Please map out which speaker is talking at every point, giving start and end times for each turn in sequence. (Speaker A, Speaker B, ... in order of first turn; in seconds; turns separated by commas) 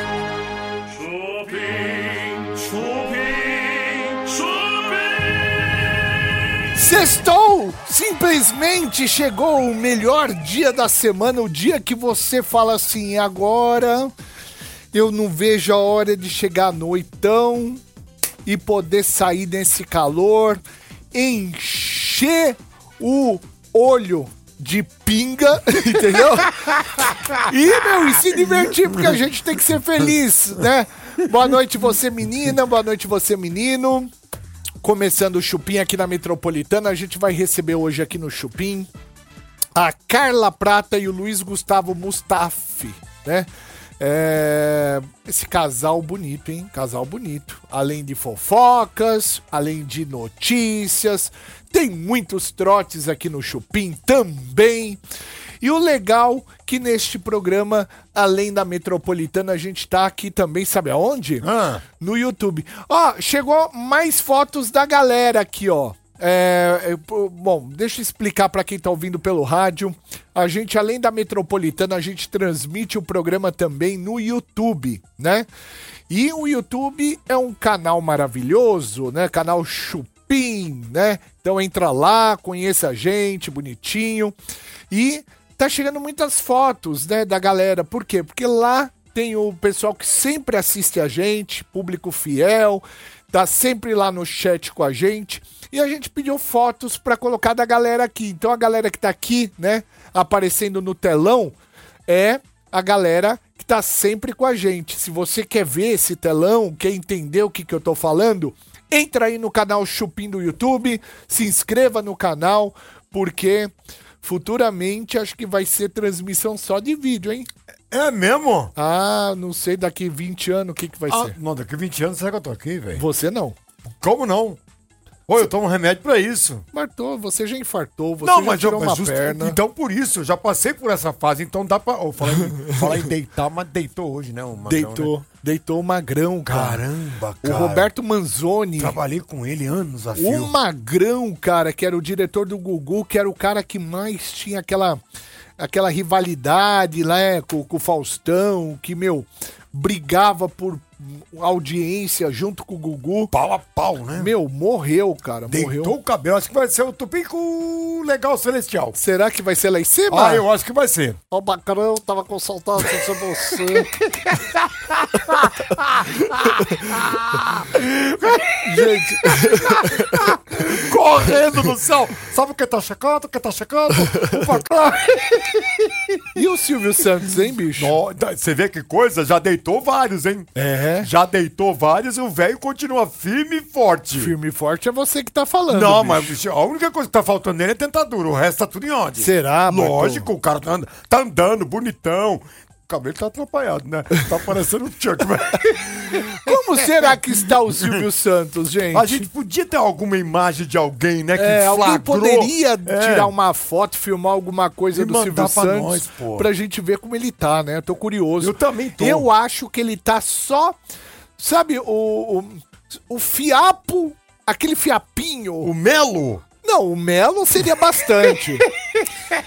Speaker A: 0.9-5.4, Speaker B: 6.8-14.1, Speaker B: 14.9-17.8, Speaker B: 18.5-20.6, Speaker B: 21.1-34.1, Speaker B: 34.8-38.9, Speaker B: 39.8-43.5, Speaker B: 44.0-55.0, Speaker B: 55.6-61.5, Speaker C: 61.4-61.8, Speaker B: 62.0-75.5, Speaker B: 76.1-84.3, Speaker B: 84.9-101.5, Speaker B: 102.1-113.7, Speaker B: 114.2-117.5, Speaker C: 117.9-118.7, Speaker B: 118.7-121.3, Speaker C: 121.1-123.0, Speaker B: 123.0-123.6, Speaker C: 124.0-124.6, Speaker C: 125.3-126.6, Speaker B: 126.7-129.6, Speaker C: 128.2-135.1, Speaker B: 134.7-136.8, Speaker C: 136.5-137.9, Speaker B: 137.4-139.0, Speaker C: 138.8-140.6, Speaker B: 140.2-145.0, Speaker B: 145.6-153.3, Speaker C: 153.3-154.3, Speaker B: 154.2-155.9, Speaker C: 155.5-159.0, Speaker B: 158.9-160.4, Speaker C: 160.1-161.2, Speaker B: 161.3-163.9, Speaker C: 163.8-176.4, Speaker B: 168.6-170.6, Speaker B: 176.3-178.0, Speaker C: 177.8-184.3, Speaker B: 180.6-181.1, Speaker B: 184.1-186.4, Speaker C: 185.7-197.2, Speaker B: 189.2-190.3, Speaker B: 196.4-199.3, Speaker C: 197.8-198.0, Speaker C: 198.9-203.3, Speaker B: 201.3-210.8, Speaker C: 204.9-206.5, Speaker C: 208.4-209.3, Speaker B: 211.4-215.7, Speaker C: 215.6-216.4, Speaker B: 216.6-218.7, Speaker C: 218.8-219.4